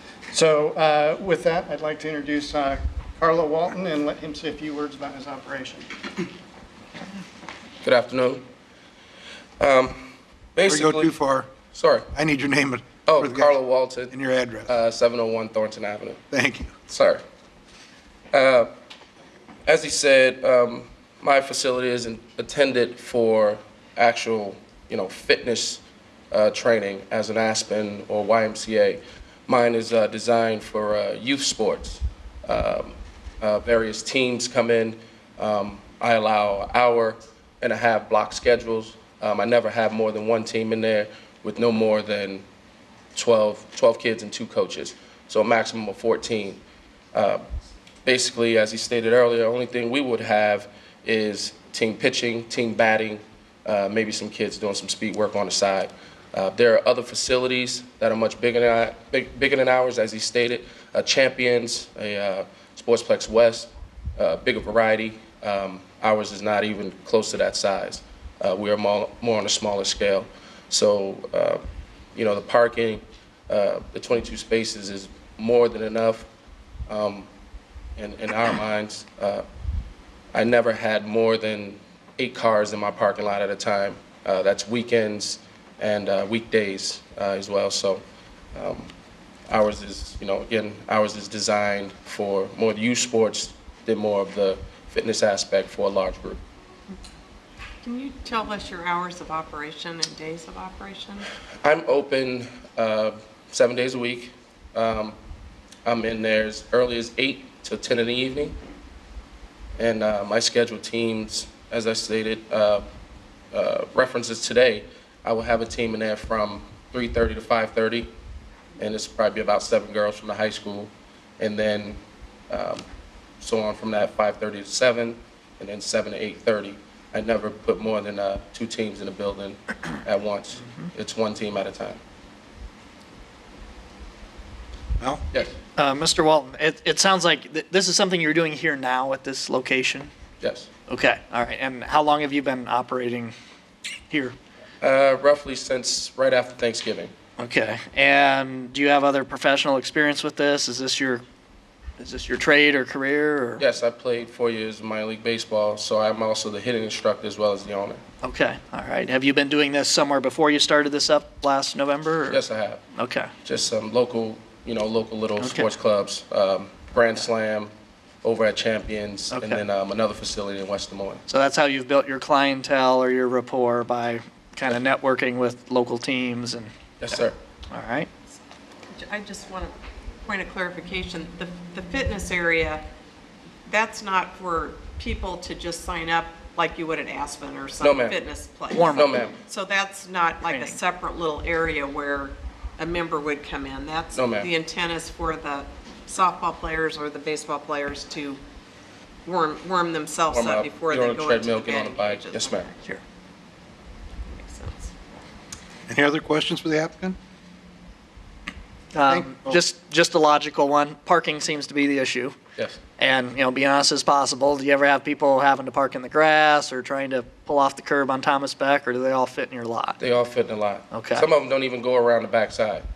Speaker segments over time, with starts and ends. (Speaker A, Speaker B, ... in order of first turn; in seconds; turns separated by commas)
Speaker A: 0.3-5.9, Speaker B: 7.8-8.4, Speaker B: 9.6-11.1, Speaker C: 10.7-11.5, Speaker B: 11.7-12.1, Speaker C: 12.1-13.5, Speaker B: 13.1-14.1, Speaker C: 14.1-14.7, Speaker B: 14.7-16.2, Speaker C: 16.3-16.7, Speaker B: 16.9-17.2, Speaker B: 18.3-18.7, Speaker B: 19.6-42.4, Speaker B: 43.1-46.6, Speaker B: 47.1-47.4, Speaker B: 48.0-71.6, Speaker B: 72.1-76.3, Speaker B: 76.9-77.3, Speaker B: 78.0-79.4, Speaker B: 80.3-88.0, Speaker B: 88.5-88.9, Speaker B: 89.5-96.4, Speaker D: 97.8-101.3, Speaker B: 101.6-105.2, Speaker B: 105.8-108.5, Speaker B: 109.8-112.8, Speaker B: 113.5-118.1, Speaker B: 118.8-122.0, Speaker B: 122.5-122.8, Speaker B: 123.4-132.0, Speaker E: 135.8-140.1, Speaker B: 140.4-140.7, Speaker E: 140.9-143.3, Speaker E: 144.1-144.3, Speaker B: 144.8-147.1, Speaker E: 147.4-151.2, Speaker E: 152.0-153.6, Speaker B: 153.6-158.0, Speaker E: 158.2-162.4, Speaker B: 162.3-162.8, Speaker E: 162.9-163.3, Speaker B: 163.4-167.7, Speaker E: 165.4-165.7, Speaker B: 168.2-171.2, Speaker E: 169.3-169.6, Speaker E: 171.3-178.1, Speaker B: 177.0-177.4, Speaker D: 178.9-182.8, Speaker D: 183.7-198.4, Speaker B: 187.8-188.2, Speaker E: 188.7-189.3, Speaker B: 188.9-189.4, Speaker E: 190.5-190.8, Speaker B: 194.1-194.5, Speaker D: 199.2-202.8, Speaker B: 200.3-202.7, Speaker D: 204.3-204.9, Speaker C: 205.9-207.2, Speaker E: 208.9-212.3, Speaker C: 209.1-209.6, Speaker E: 213.0-220.0, Speaker B: 220.0-222.8, Speaker E: 220.9-221.3